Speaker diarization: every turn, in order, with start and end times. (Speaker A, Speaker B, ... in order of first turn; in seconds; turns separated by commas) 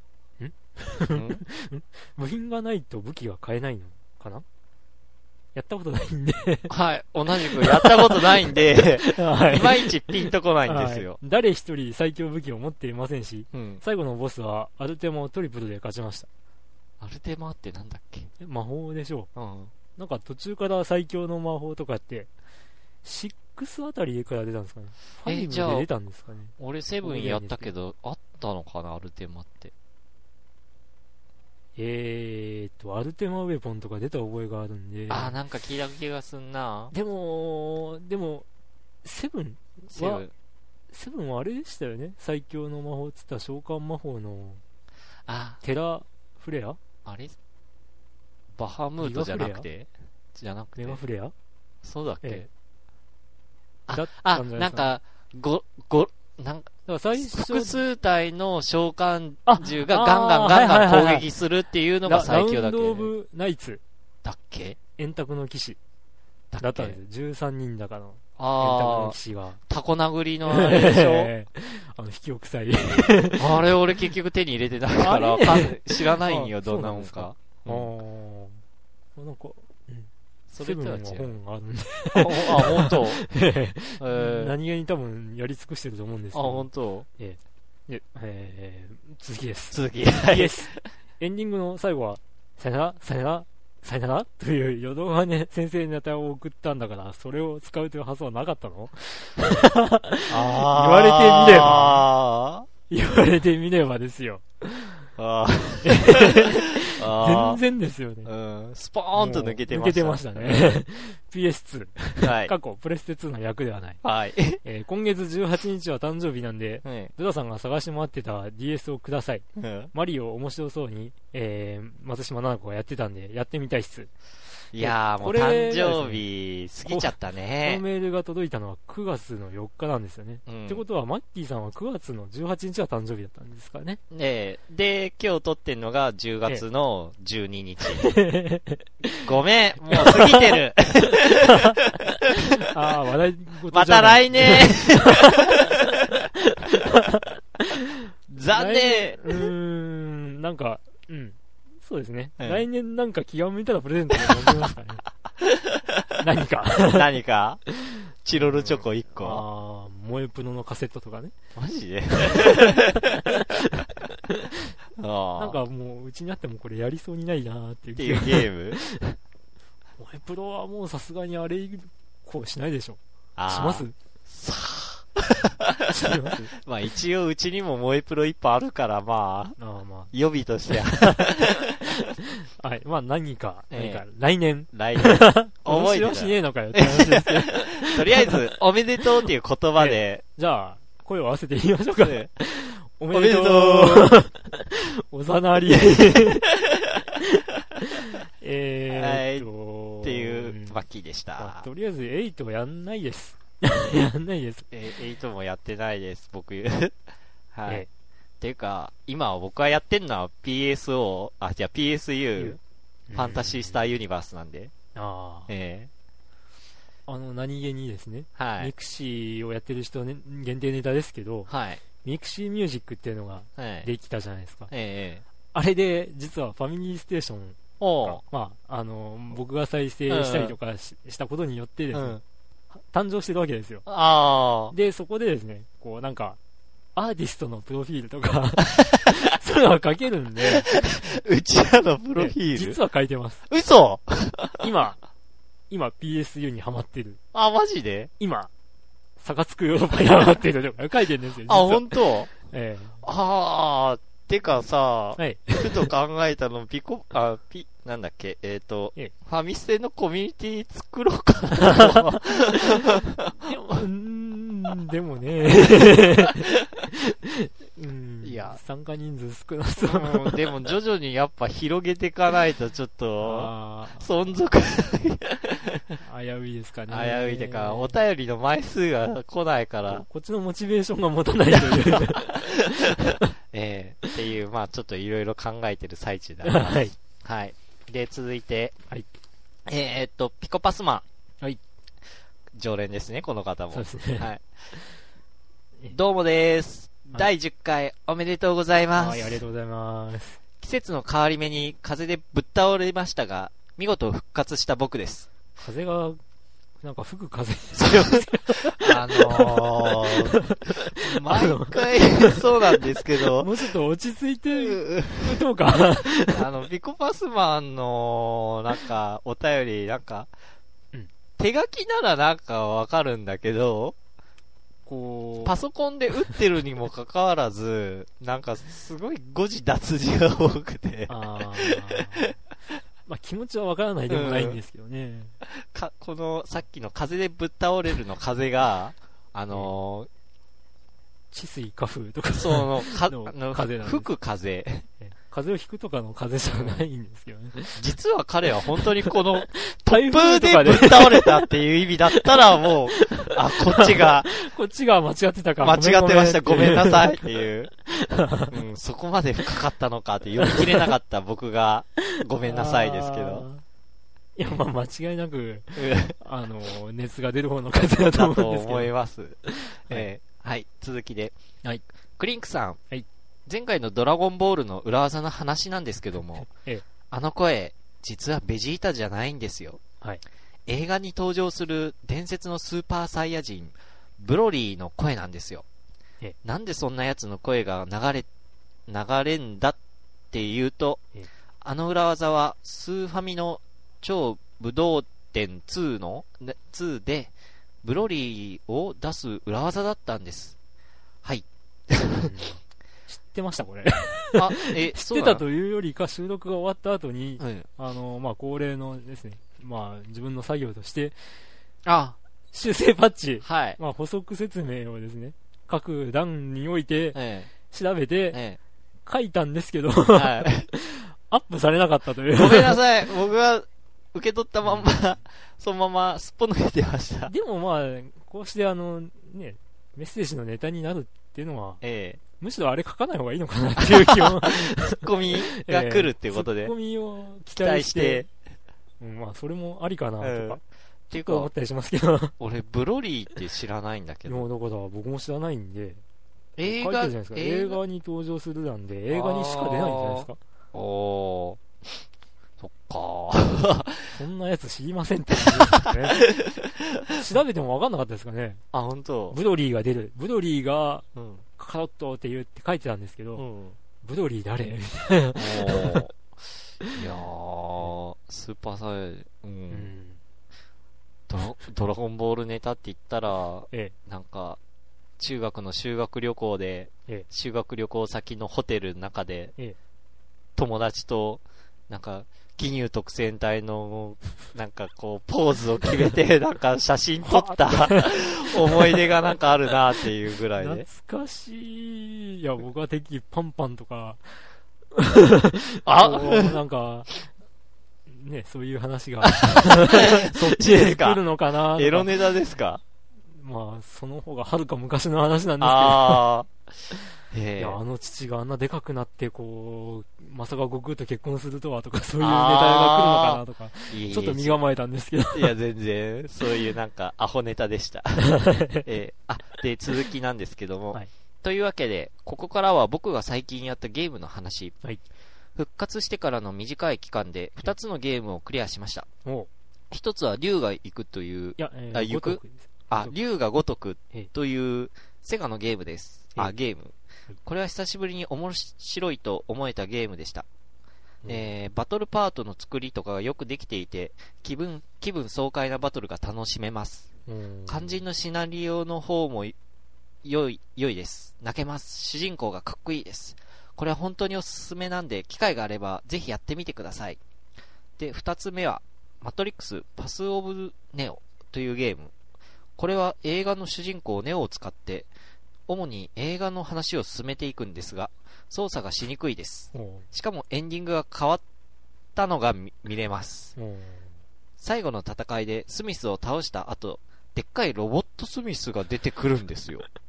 Speaker A: 0.4-4.4, Speaker B: 1.1-1.4, Speaker A: 5.5-6.7, Speaker B: 6.7-11.2, Speaker A: 7.4-16.3, Speaker B: 13.5-13.8, Speaker B: 17.0-18.3, Speaker A: 18.4-19.3, Speaker B: 19.3-19.7, Speaker A: 19.9-22.3, Speaker A: 23.0-27.7, Speaker B: 25.2-25.9, Speaker B: 26.6-29.7, Speaker A: 31.8-35.4, Speaker B: 35.1-36.9, Speaker A: 36.9-38.5, Speaker A: 39.0-40.2, Speaker B: 39.9-40.3, Speaker A: 40.9-44.6, Speaker B: 45.2-45.6, Speaker A: 45.6-46.8, Speaker B: 47.0-47.4, Speaker B: 48.5-51.0, Speaker A: 49.0-49.6, Speaker A: 50.8-51.3, Speaker B: 51.8-52.5, Speaker B: 53.9-63.1, Speaker A: 53.9-54.9, Speaker A: 56.9-57.8, Speaker A: 59.5-61.2, Speaker A: 62.0-63.8, Speaker B: 64.2-64.8, Speaker A: 65.0-65.8, Speaker B: 66.5-67.0, Speaker A: 66.6-69.6, Speaker B: 68.4-69.2, Speaker B: 69.7-71.3, Speaker A: 70.4-73.7, Speaker B: 73.4-77.9, Speaker A: 74.9-78.6, Speaker A: 79.2-80.1, Speaker B: 80.5-81.3, Speaker A: 80.6-102.0, Speaker B: 82.1-83.2, Speaker B: 84.0-84.5, Speaker B: 86.3-87.1, Speaker B: 89.7-90.8, Speaker B: 100.3-102.7, Speaker A: 102.9-105.1, Speaker B: 105.2-107.6, Speaker A: 105.8-108.3, Speaker B: 108.2-110.8, Speaker A: 109.1-114.0, Speaker B: 112.2-112.5, Speaker B: 114.0-114.6, Speaker A: 114.6-124.1, Speaker B: 116.8-117.1, Speaker B: 119.5-119.9, Speaker B: 124.7-127.8, Speaker A: 124.8-126.2, Speaker A: 126.8-134.0, Speaker B: 130.5-130.8, Speaker B: 134.1-138.1, Speaker A: 137.9-139.2, Speaker B: 139.2-141.9, Speaker A: 139.9-140.6, Speaker A: 141.4-148.0, Speaker B: 143.7-146.1, Speaker B: 148.3-149.5, Speaker A: 148.5-155.1, Speaker B: 152.4-152.6, Speaker B: 154.2-154.6, Speaker B: 155.4-156.1, Speaker A: 156.2-157.1, Speaker B: 156.8-157.6, Speaker A: 157.7-161.3, Speaker B: 158.2-159.4, Speaker B: 161.5-163.4, Speaker A: 162.2-163.6, Speaker A: 164.3-164.6, Speaker B: 165.0-165.6, Speaker A: 165.4-169.2, Speaker B: 168.0-168.8, Speaker A: 170.0-173.9, Speaker B: 173.3-175.9, Speaker A: 175.9-176.5, Speaker B: 176.5-179.6, Speaker A: 179.6-180.1, Speaker B: 180.1-181.8, Speaker A: 180.7-181.3, Speaker A: 181.8-188.3, Speaker B: 183.7-184.0, Speaker B: 184.7-190.2, Speaker A: 189.8-196.5, Speaker B: 192.0-192.3, Speaker B: 193.1-194.2, Speaker B: 196.7-197.0, Speaker A: 197.1-200.8, Speaker B: 198.9-199.5, Speaker B: 200.0-201.7, Speaker A: 201.4-204.7, Speaker B: 204.7-206.9, Speaker B: 207.5-207.9, Speaker B: 208.4-212.6, Speaker A: 212.4-213.8, Speaker B: 213.1-214.7, Speaker A: 214.9-215.5, Speaker B: 215.5-215.9, Speaker A: 217.1-221.5, Speaker B: 218.3-218.7, Speaker B: 221.5-221.8, Speaker A: 222.0-224.7, Speaker B: 223.6-223.9, Speaker B: 224.7-225.2, Speaker A: 225.5-232.2, Speaker B: 227.8-228.2, Speaker B: 230.1-230.6, Speaker B: 231.9-232.2, Speaker A: 232.7-233.8, Speaker B: 233.8-234.7, Speaker A: 234.7-236.4, Speaker A: 236.9-240.7, Speaker B: 240.6-242.8, Speaker A: 242.1-243.4, Speaker B: 243.5-244.7, Speaker A: 244.6-245.0, Speaker A: 245.7-247.2, Speaker B: 247.3-248.1, Speaker A: 248.2-248.5, Speaker A: 249.2-253.0, Speaker B: 251.4-252.3, Speaker B: 253.0-263.4, Speaker A: 255.2-255.9, Speaker A: 263.4-270.5, Speaker B: 268.2-268.6, Speaker B: 269.8-275.8, Speaker A: 273.2-274.1, Speaker A: 276.0-278.0, Speaker B: 276.9-280.0, Speaker A: 279.9-283.3, Speaker B: 281.5-288.8, Speaker A: 286.4-286.9, Speaker B: 289.6-291.0, Speaker B: 292.5-294.4, Speaker A: 293.7-294.9, Speaker B: 295.9-299.4, Speaker A: 298.9-300.4, Speaker B: 300.6-305.3, Speaker A: 305.6-306.2, Speaker A: 306.8-316.4, Speaker B: 307.7-313.7, Speaker B: 314.5-315.4, Speaker B: 316.3-320.3, Speaker B: 321.4-323.9, Speaker A: 324.9-325.6, Speaker B: 325.4-332.3, Speaker A: 331.1-332.3, Speaker A: 333.1-335.3, Speaker B: 334.1-334.6, Speaker B: 335.4-340.1, Speaker A: 341.3-344.1, Speaker B: 342.3-344.9, Speaker A: 345.0-347.8, Speaker B: 346.5-346.8, Speaker B: 347.8-354.3, Speaker A: 348.8-351.5, Speaker A: 352.1-357.3, Speaker B: 355.6-357.7, Speaker A: 357.9-358.5, Speaker B: 358.5-363.4, Speaker A: 360.4-360.9, Speaker A: 362.4-363.6, Speaker A: 364.4-368.9, Speaker B: 365.8-366.1, Speaker B: 368.1-371.4, Speaker A: 369.4-370.1, Speaker B: 372.2-372.8, Speaker B: 373.4-376.5, Speaker A: 376.5-376.8, Speaker B: 377.1-379.8, Speaker B: 380.7-385.6, Speaker B: 386.4-388.3, Speaker B: 388.9-389.8, Speaker B: 390.3-391.0, Speaker B: 391.6-400.6, Speaker B: 401.2-402.3, Speaker A: 402.1-411.1, Speaker B: 404.3-405.4, Speaker B: 407.4-407.7, Speaker B: 411.8-412.2, Speaker A: 412.5-418.4, Speaker B: 413.4-413.8, Speaker B: 417.1-417.5, Speaker B: 418.3-418.6, Speaker A: 419.1-422.8, Speaker B: 420.1-420.7, Speaker B: 422.3-427.3, Speaker A: 424.6-424.9, Speaker A: 427.3-431.8, Speaker B: 431.8-432.2, Speaker A: 432.4-438.2, Speaker B: 433.8-436.7, Speaker B: 437.5-438.3, Speaker A: 439.0-442.3, Speaker B: 440.2-441.5, Speaker B: 442.4-444.4, Speaker A: 444.2-446.0, Speaker B: 446.6-447.8, Speaker A: 446.6-450.4, Speaker B: 449.1-451.6, Speaker B: 452.6-454.1, Speaker A: 454.1-456.2, Speaker B: 455.6-457.2, Speaker A: 457.1-458.6, Speaker B: 458.7-459.4, Speaker A: 459.3-461.0, Speaker B: 461.1-461.4, Speaker A: 461.6-463.4, Speaker B: 463.4-463.8, Speaker A: 464.0-466.0, Speaker B: 465.3-466.1, Speaker B: 466.9-469.9, Speaker A: 469.7-470.2, Speaker B: 471.3-474.6, Speaker B: 475.2-479.5, Speaker B: 480.6-490.9, Speaker A: 487.2-489.1, Speaker A: 490.6-494.4, Speaker A: 494.9-497.1, Speaker B: 495.9-496.6, Speaker A: 498.1-502.2, Speaker B: 499.2-501.2, Speaker B: 501.7-502.8, Speaker A: 503.3-506.2, Speaker B: 505.6-506.5, Speaker B: 507.3-507.8, Speaker A: 507.6-515.5, Speaker B: 512.2-514.6, Speaker B: 515.3-524.8, Speaker A: 518.2-518.9, Speaker B: 525.5-529.1, Speaker A: 529.2-529.5, Speaker B: 529.9-540.5, Speaker A: 531.6-533.1, Speaker A: 541.2-541.5, Speaker B: 541.2-547.1, Speaker A: 547.3-548.0, Speaker B: 547.7-549.5, Speaker B: 550.2-557.2, Speaker B: 558.0-562.1, Speaker B: 562.8-565.1, Speaker B: 565.7-571.4, Speaker A: 569.7-570.0, Speaker B: 572.1-573.5, Speaker A: 573.6-574.1, Speaker B: 574.6-579.9